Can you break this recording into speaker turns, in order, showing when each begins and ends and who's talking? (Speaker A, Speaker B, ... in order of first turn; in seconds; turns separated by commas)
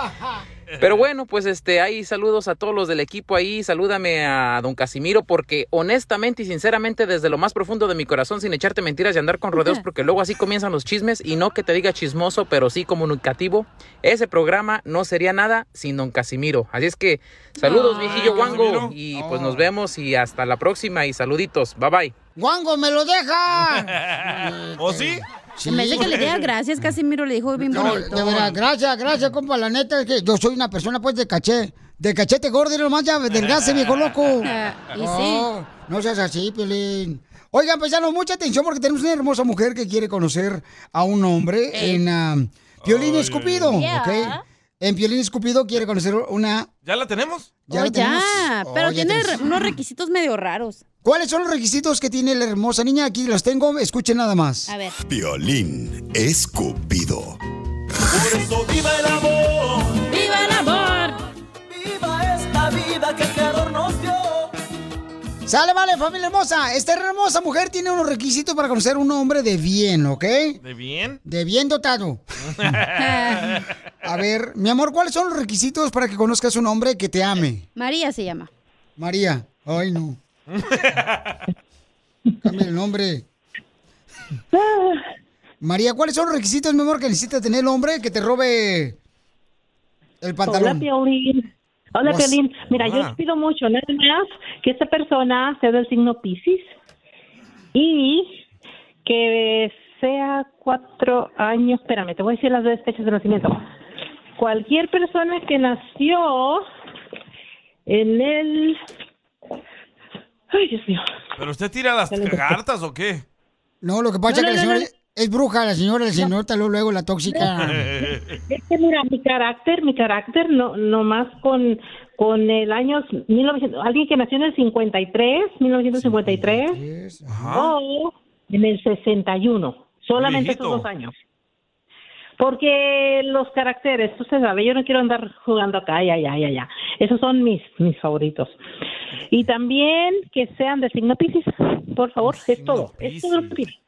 Speaker A: 0.7-1.1, Speaker B: 0.8-22.1, Speaker C: 9.6-9.8, Speaker C: 17.6-18.6, Speaker A: 18.0-18.9, Speaker D: 19.1-19.6, Speaker D: 22.4-26.2, Speaker A: 23.7-25.2, Speaker C: 25.7-28.4, Speaker A: 25.9-26.5, Speaker A: 27.7-28.6, Speaker D: 27.7-46.7, Speaker A: 33.3-34.1, Speaker C: 34.4-35.5, Speaker C: 41.7-42.0, Speaker A: 42.8-43.8, Speaker C: 43.7-44.4, Speaker A: 46.9-47.5, Speaker D: 47.7-49.5, Speaker C: 47.7-50.8, Speaker D: 51.0-54.7, Speaker C: 54.7-55.0, Speaker E: 55.1-57.4, Speaker C: 60.1-61.2, Speaker F: 61.9-64.2, Speaker D: 65.5-70.6, Speaker A: 70.6-71.2, Speaker D: 71.2-72.2, Speaker A: 72.5-73.7, Speaker C: 73.0-73.6, Speaker D: 74.0-77.7, Speaker C: 77.8-78.5, Speaker D: 79.0-80.2, Speaker A: 80.5-81.4, Speaker D: 82.4-83.2, Speaker G: 84.5-85.1, Speaker D: 85.6-89.0, Speaker D: 90.2-90.9, Speaker G: 90.5-96.7, Speaker D: 92.0-92.3, Speaker A: 92.7-93.2, Speaker G: 97.7-98.4, Speaker G: 99.0-103.6, Speaker G: 104.4-106.7, Speaker G: 107.9-108.8, Speaker G: 110.5-111.1, Speaker A: 111.4-113.2, Speaker G: 112.1-112.6, Speaker D: 113.8-117.9, Speaker G: 114.3-114.9, Speaker A: 117.5-118.4, Speaker G: 118.5-126.8, Speaker D: 125.9-127.4, Speaker A: 127.3-127.8, Speaker G: 127.5-131.1, Speaker A: 130.2-130.9, Speaker G: 132.4-138.6, Speaker G: 139.3-143.7, Speaker A: 142.2-143.7